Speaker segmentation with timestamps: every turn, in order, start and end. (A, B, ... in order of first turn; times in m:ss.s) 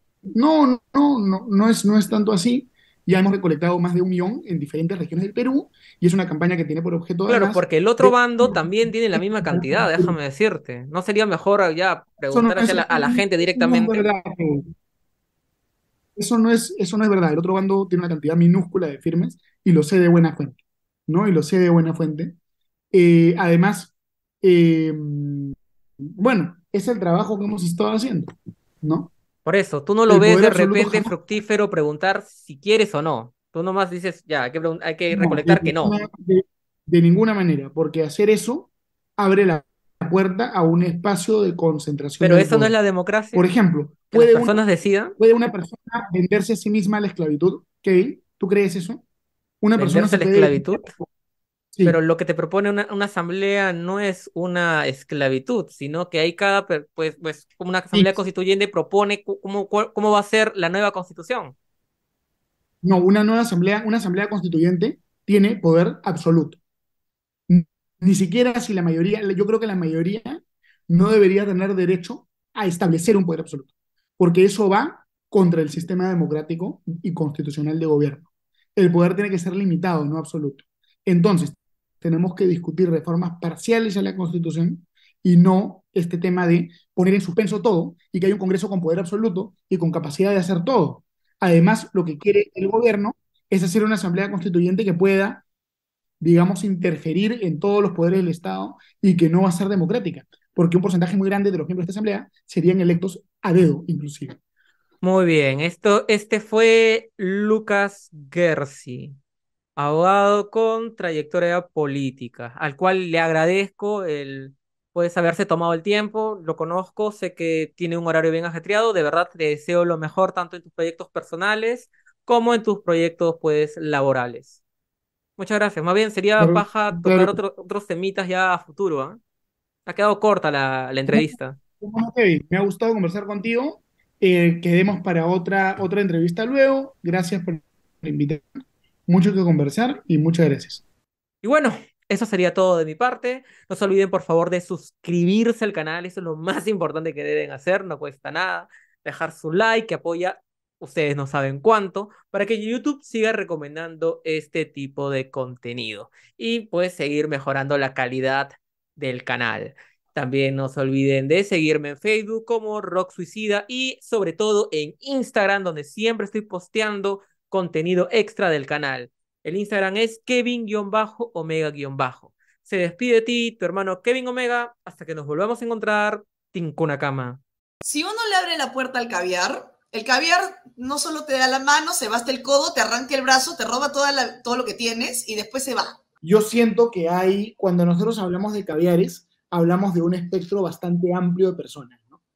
0:00.3-0:10.2 A
0:07.3-0:14.1 B
0:12.3-0:14.7 A
0:16.2-0:22.4 A
0:22.9-0:25.6 A
0:26.2-0:29.1 A
0:29.4-0:36.0 B
0:30.1-0:31.1 A
0:35.1-0:42.7 A
0:42.2-0:43.5 B
0:43.3-0:44.6 A
0:44.1-0:45.2 B
0:45.2-0:49.0 A
0:49.6-0:51.1 A
0:49.8-0:50.9 B
0:51.8-1:01.6 B
0:57.9-0:58.2 A
1:02.8-1:06.6 A
1:07.5-1:35.4 A
1:36.2-1:44.4 A
1:45.0-1:49.2 B
1:49.8-2:04.6 B
2:05.4-2:09.2 B
2:06.4-2:07.4 A
2:09.9-2:11.6 B
2:11.1-2:20.8 A
2:21.4-2:57.4 B
2:57.8-3:06.0 C
3:06.2-3:12.2 A